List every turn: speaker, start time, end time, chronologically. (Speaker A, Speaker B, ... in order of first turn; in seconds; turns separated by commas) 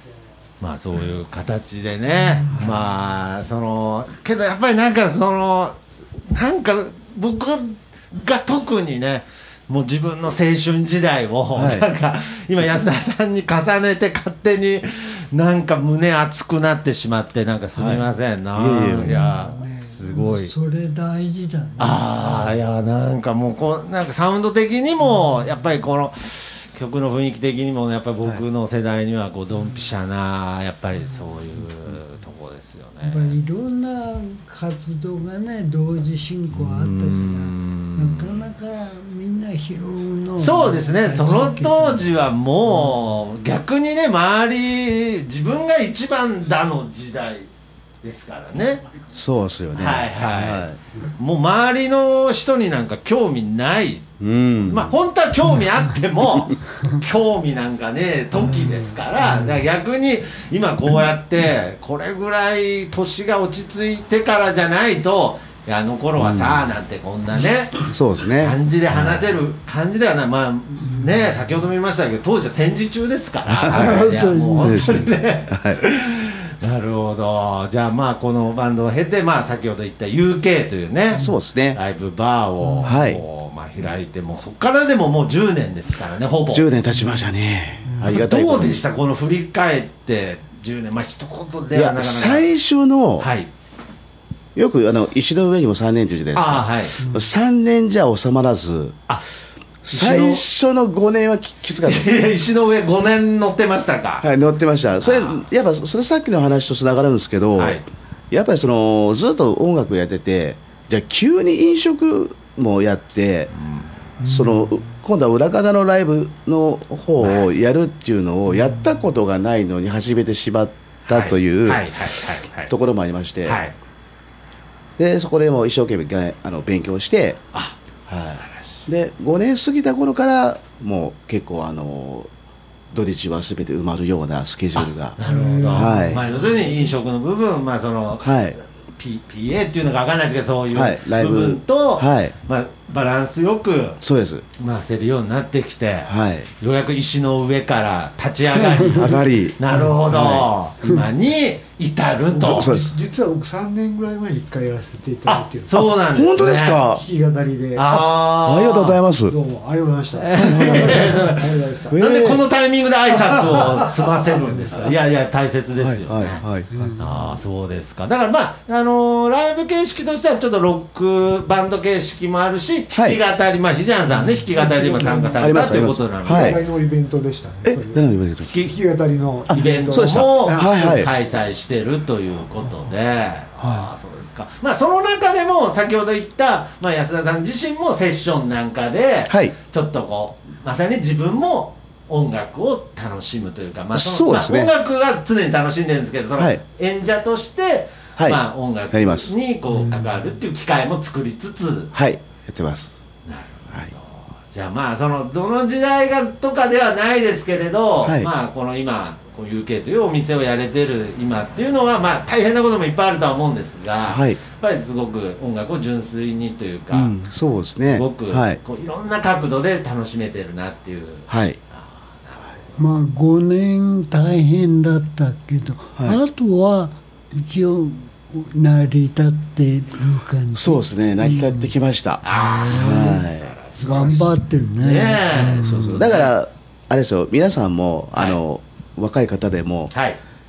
Speaker A: 0.6-20.5, Speaker B: 2.2-2.8, Speaker C: 11.5-11.8, Speaker C: 17.7-19.3, Speaker B: 18.9-22.5, Speaker A: 21.8-33.3, Speaker B: 33.0-42.1, Speaker A: 36.5-38.4, Speaker A: 40.4-47.5, Speaker A: 48.0-48.9, Speaker C: 49.1-50.8, Speaker A: 49.7-86.9, Speaker C: 54.2-55.0, Speaker C: 66.2-66.6, Speaker C: 67.9-69.2, Speaker C: 73.5-75.8, Speaker B: 73.7-75.1, Speaker C: 81.1-81.8, Speaker C: 82.8-83.2, Speaker C: 86.5-88.8, Speaker A: 88.0-92.5, Speaker C: 91.7-93.3, Speaker A: 93.2-93.5, Speaker C: 94.5-99.0, Speaker A: 96.3-97.0, Speaker C: 99.8-102.2, Speaker A: 99.9-100.4, Speaker A: 101.8-104.3, Speaker C: 104.2-107.8, Speaker A: 105.0-105.5, Speaker A: 107.6-107.8, Speaker C: 108.3-113.5, Speaker A: 113.5-113.9, Speaker C: 114.2-121.9, Speaker A: 117.2-117.5, Speaker A: 121.1-122.7, Speaker C: 122.7-123.6, Speaker A: 123.4-123.7, Speaker C: 125.0-127.4, Speaker A: 127.5-128.8, Speaker C: 128.1-132.3, Speaker C: 132.9-136.2, Speaker A: 134.8-144.0, Speaker D: 135.2-136.2, Speaker C: 138.2-138.6, Speaker C: 140.7-142.3, Speaker C: 144.0-144.4, Speaker A: 144.6-152.9, Speaker C: 146.1-146.5, Speaker C: 148.9-150.5, Speaker D: 152.3-155.9, Speaker C: 152.4-152.9, Speaker A: 155.3-156.8, Speaker C: 155.8-157.0, Speaker D: 156.8-157.9, Speaker A: 157.7-159.0, Speaker C: 157.9-159.3, Speaker D: 159.3-162.0, Speaker A: 160.1-166.4, Speaker C: 160.3-161.3, Speaker C: 161.9-162.4, Speaker C: 165.8-166.7, Speaker D: 166.7-167.0, Speaker A: 167.0-176.6, Speaker C: 172.9-173.2, Speaker D: 174.2-178.0, Speaker C: 175.4-176.6, Speaker C: 177.6-178.5, Speaker A: 178.4-178.7, Speaker D: 178.5-181.1, Speaker C: 179.5-181.1, Speaker A: 179.5-201.9, Speaker C: 183.6-183.9, Speaker C: 189.3-189.5, Speaker C: 193.9-194.7, Speaker C: 198.2-199.3, Speaker C: 201.9-203.0, Speaker A: 203.2-217.1, Speaker C: 208.0-208.3, Speaker C: 214.1-214.4, Speaker C: 216.9-218.6, Speaker A: 217.9-222.8, Speaker C: 221.3-221.6, Speaker B: 222.8-231.7, Speaker C: 230.5-233.5, Speaker A: 232.2-234.2, Speaker B: 232.3-233.2, Speaker B: 233.8-236.0, Speaker A: 234.8-236.3, Speaker C: 235.6-239.9, Speaker A: 238.1-238.4, Speaker A: 239.9-240.2